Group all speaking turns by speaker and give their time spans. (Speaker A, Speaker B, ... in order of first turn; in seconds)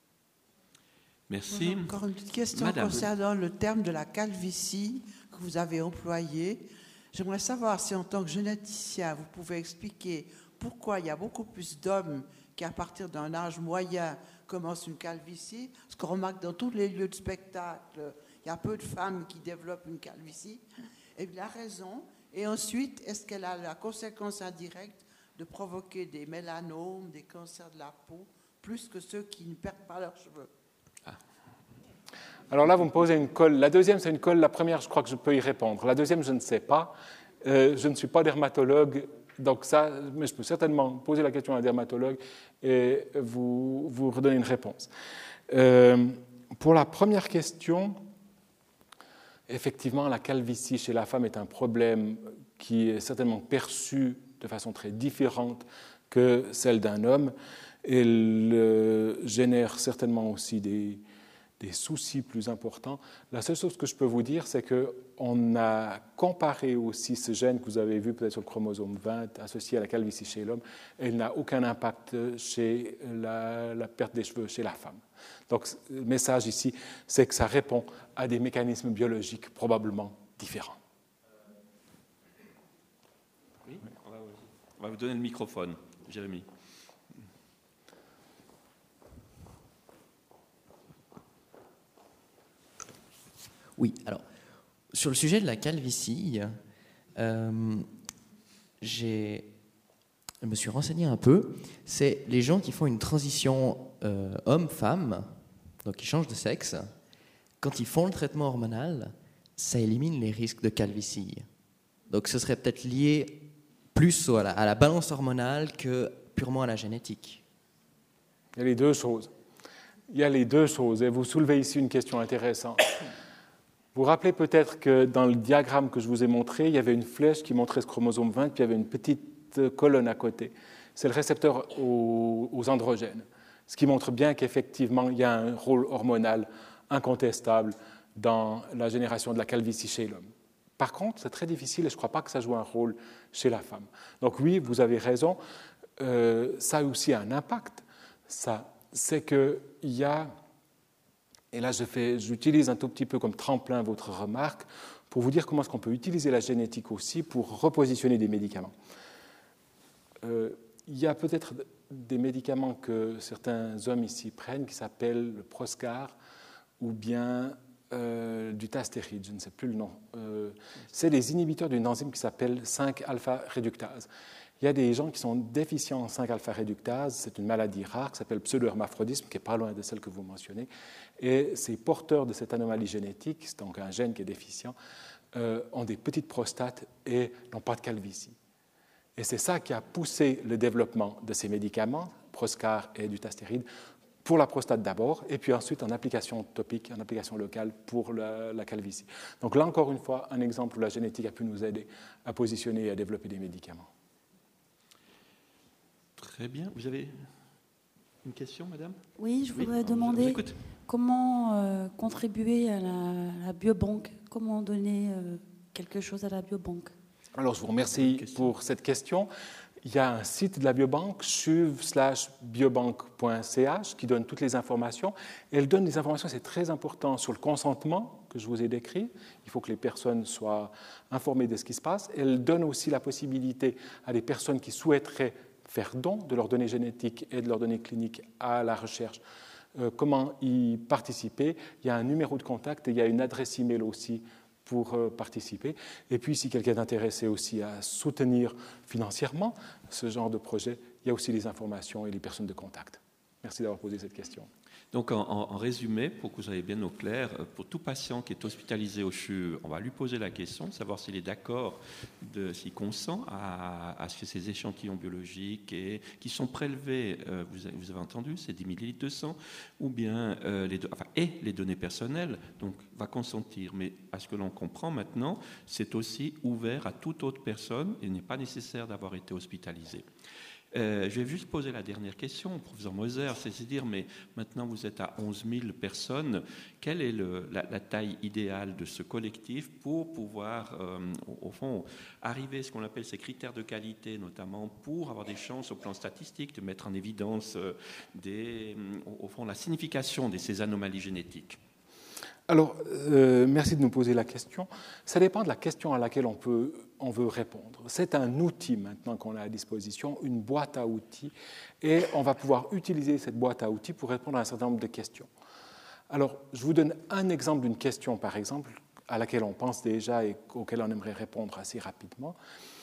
Speaker A: 1.3-1.9, 2.5-3.1, 83.7-86.5, 206.2-207.3, 208.2-209.0, 209.5-210.7, 217.9-218.5, 254.9-280.1, 280.7-301.6
Speaker B: 1.5-20.6, 21.2-30.5
Speaker C: 32.5-44.9, 45.5-48.0, 49.5-61.0, 61.6-80.8, 118.5-119.3, 120.1-123.0, 123.9-145.4, 146.0-150.3, 151.5-158.7, 160.2-166.2, 166.8-174.1, 174.6-184.8, 185.3-188.4, 189.2-193.7, 194.2-203.9, 217.4-219.3, 219.8-239.2, 239.8-254.5, 302.5-315.3, 316.1-322.4
Speaker D: 93.8-94.2, 94.9-96.6, 97.2-97.9, 98.8-99.5, 100.4-106.9, 107.6-111.5, 112.1-117.4
Speaker E: 209.2-216.9